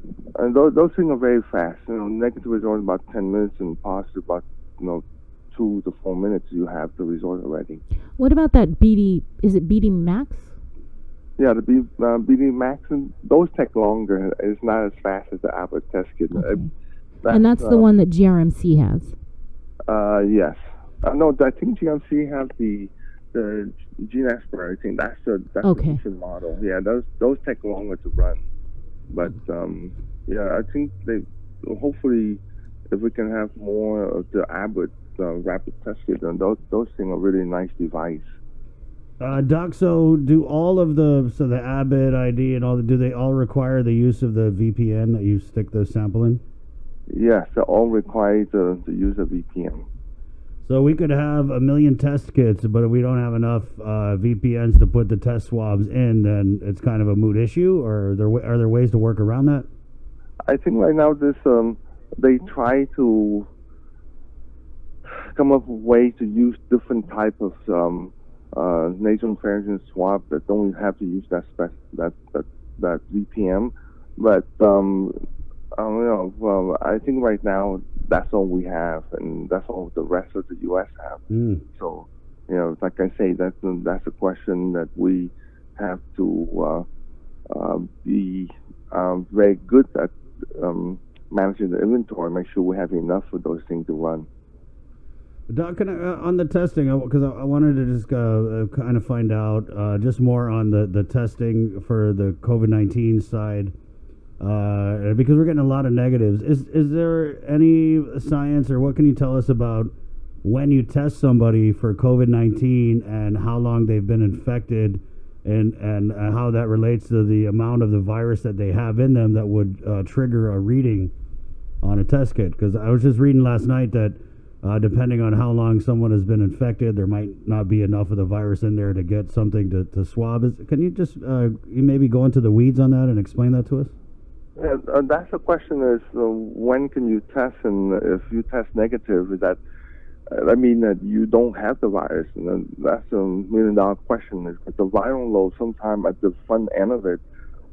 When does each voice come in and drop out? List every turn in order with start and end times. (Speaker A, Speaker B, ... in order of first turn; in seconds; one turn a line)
Speaker A: 0.3-7.8
Speaker B: 8.2-10.5
Speaker A: 11.4-16.6
Speaker B: 16.3-16.7
Speaker A: 17.2-17.9
Speaker B: 17.3-19.1
Speaker A: 19.9-28.4
Speaker B: 25.6-26.0
Speaker A: 29.1-38.3
Speaker C: 39.2-46.4
Speaker A: 47.1-49.9
Speaker C: 50.6-59.7
Speaker A: 60.5-63.5
Speaker A: 65.1-75.2
Speaker A: 75.7-86.8
Speaker C: 81.3-81.6
Speaker A: 87.5-94.3
Speaker C: 95.5-103.7
Speaker C: 104.4-109.9
Speaker C: 110.4-121.1
Speaker C: 121.8-133.9
Speaker A: 134.6-139.6
Speaker A: 140.3-147.2